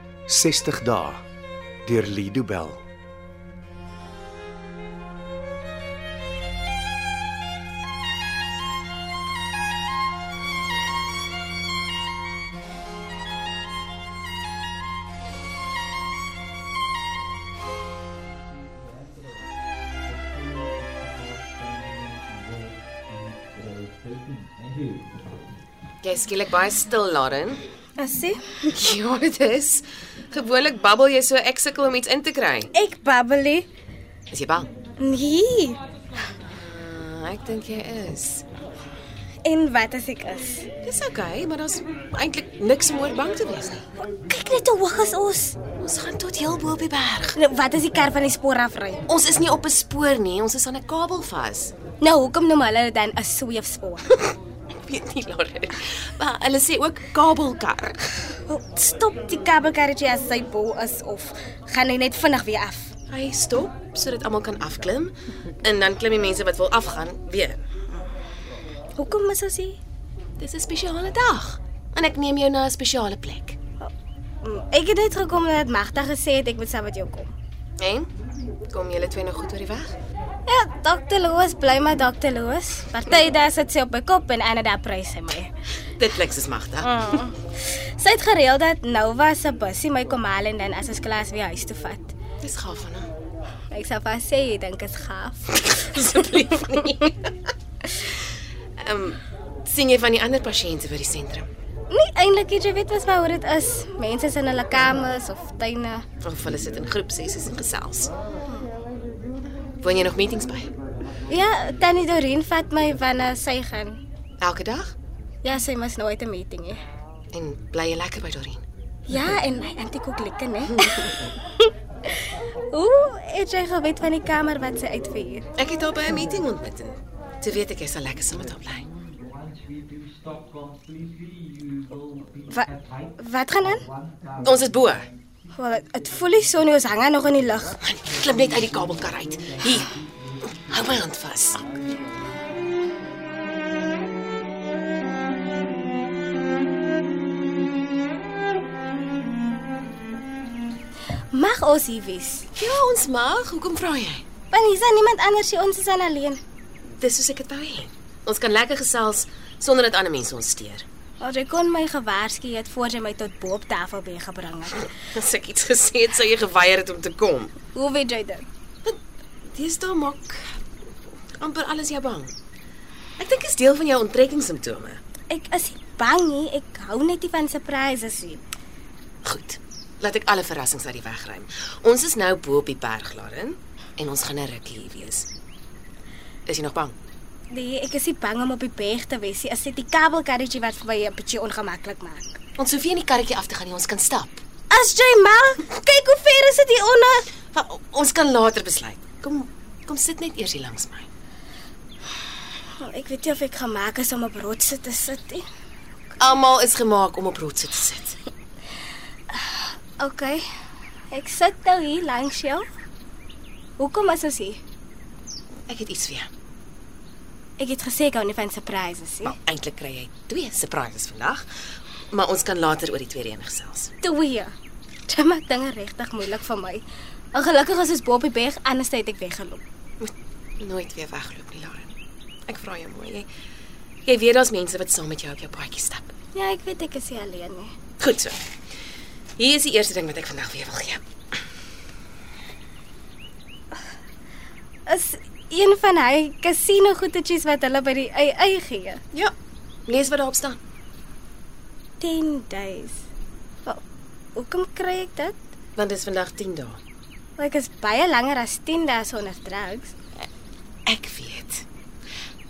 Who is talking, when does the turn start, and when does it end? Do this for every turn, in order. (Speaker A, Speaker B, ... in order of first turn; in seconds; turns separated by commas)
Speaker A: 0.3-1.2, Speaker A: 1.8-2.9, Speaker B: 26.0-27.6, Speaker C: 28.0-28.5, Speaker B: 28.7-32.7, Speaker C: 32.7-33.7, Speaker B: 34.3-34.7, Speaker C: 35.0-35.8, Speaker B: 36.5-38.4, Speaker C: 39.4-40.7, Speaker B: 40.8-43.8, Speaker C: 44.2-45.6, Speaker B: 45.8-47.4, Speaker C: 47.4-49.0, Speaker B: 49.1-51.7, Speaker C: 52.0-54.2, Speaker B: 54.8-58.1, Speaker C: 58.5-62.9, Speaker B: 63.1-67.6, Speaker C: 69.0-69.8, Speaker B: 70.4-73.6, Speaker C: 74.4-77.3, Speaker B: 77.8-78.1, Speaker B: 78.7-79.9, Speaker C: 80.5-85.5, Speaker B: 86.0-86.9, Speaker C: 86.8-92.1, Speaker B: 92.4-93.1, Speaker C: 93.7-95.8, Speaker B: 95.6-97.3, Speaker B: 98.8-101.5, Speaker C: 101.9-106.0, Speaker B: 106.2-108.1, Speaker B: 109.8-110.7, Speaker C: 111.3-114.0, Speaker B: 114.4-114.9, Speaker C: 115.4-116.8, Speaker B: 117.3-118.6, Speaker C: 119.1-125.5, Speaker B: 120.7-121.1, Speaker B: 125.6-128.9, Speaker C: 132.5-133.8, Speaker B: 134.4-135.1, Speaker C: 135.5-137.8, Speaker B: 137.8-141.7, Speaker C: 151.3-152.5, Speaker B: 152.6-154.2, Speaker C: 154.5-156.4, Speaker B: 156.9-160.8, Speaker C: 161.2-164.8, Speaker B: 165.0-167.5, Speaker C: 167.7-168.4, Speaker B: 169.5-170.5, Speaker B: 171.4-172.3, Speaker B: 173.2-175.0, Speaker C: 175.3-178.4, Speaker B: 179.2-185.3, Speaker B: 186.5-186.9, Speaker C: 187.5-192.4, Speaker B: 192.6-194.4, Speaker C: 194.7-197.3, Speaker B: 197.5-201.1, Speaker C: 202.8-205.4, Speaker B: 206.2-208.2, Speaker C: 209.3-210.4, Speaker C: 211.1-212.6, Speaker C: 213.8-214.6, Speaker B: 215.7-216.3, Speaker C: 217.6-219.3, Speaker B: 219.2-221.4, Speaker B: 222.1-223.9, Speaker C: 224.0-224.5, Speaker C: 225.1-226.8, Speaker C: 227.3-229.6, Speaker B: 230.0-231.9, Speaker B: 232.5-233.3, Speaker B: 234.1-236.1, Speaker C: 236.3-237.7, Speaker B: 238.0-238.4, Speaker B: 239.4-241.0, Speaker C: 244.9-249.0, Speaker B: 249.9-250.6, Speaker C: 252.0-253.0, Speaker C: 254.3-255.4, Speaker B: 255.8-256.8, Speaker C: 257.4-259.9, Speaker B: 260.9-261.6